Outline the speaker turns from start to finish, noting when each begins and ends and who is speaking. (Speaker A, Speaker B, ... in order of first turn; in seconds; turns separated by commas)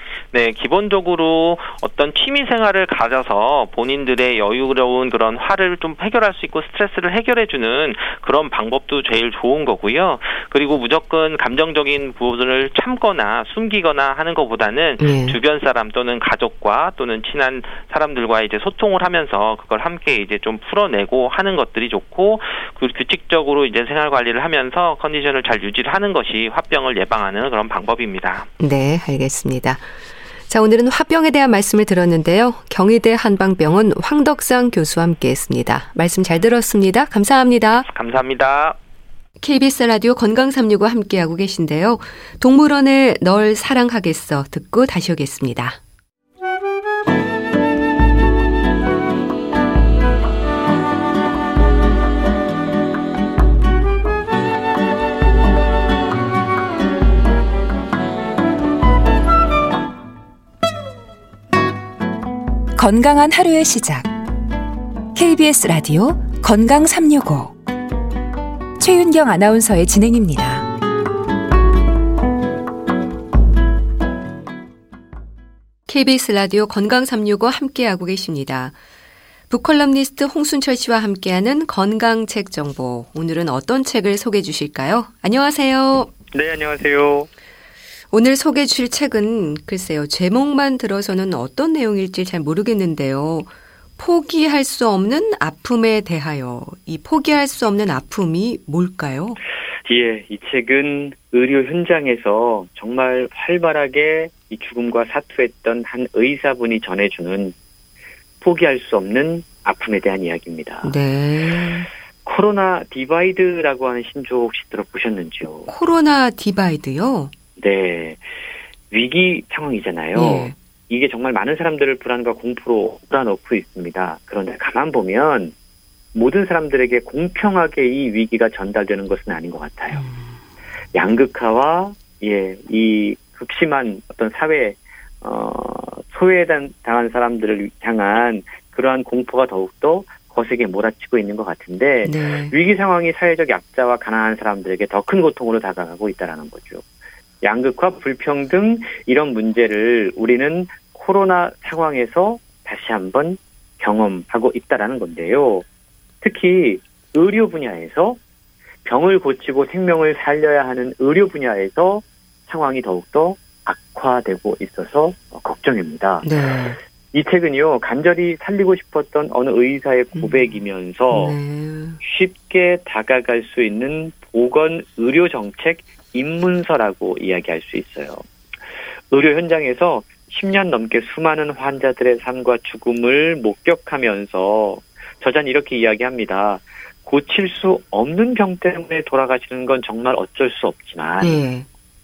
Speaker A: 0.3-28.5, Speaker B: 15.0-15.4, Speaker B: 28.6-29.9, Speaker B: 30.5-37.9, Speaker A: 37.8-38.8, Speaker B: 39.4-45.8, Speaker C: 62.8-64.1, Speaker C: 65.1-67.6, Speaker C: 68.8-70.7, Speaker B: 75.9-78.7, Speaker B: 79.5-86.1, Speaker D: 86.3-87.3, Speaker B: 88.1-99.4, Speaker D: 99.8-107.5, Speaker D: 108.4-110.9, Speaker B: 110.8-111.9, Speaker D: 112.2-115.7, Speaker B: 115.7-117.3, Speaker D: 117.6-118.2, Speaker D: 118.9-125.5, Speaker B: 120.1-120.5, Speaker D: 126.1-130.0, Speaker B: 129.9-130.3, Speaker D: 130.9-146.8, Speaker B: 142.0-142.5, Speaker D: 147.4-155.6, Speaker D: 156.2-158.2, Speaker D: 158.8-166.3, Speaker B: 166.2-166.8, Speaker D: 167.1-171.4, Speaker B: 170.2-170.5, Speaker B: 171.1-172.0, Speaker D: 172.0-178.2, Speaker D: 179.1-191.4, Speaker B: 191.2-191.7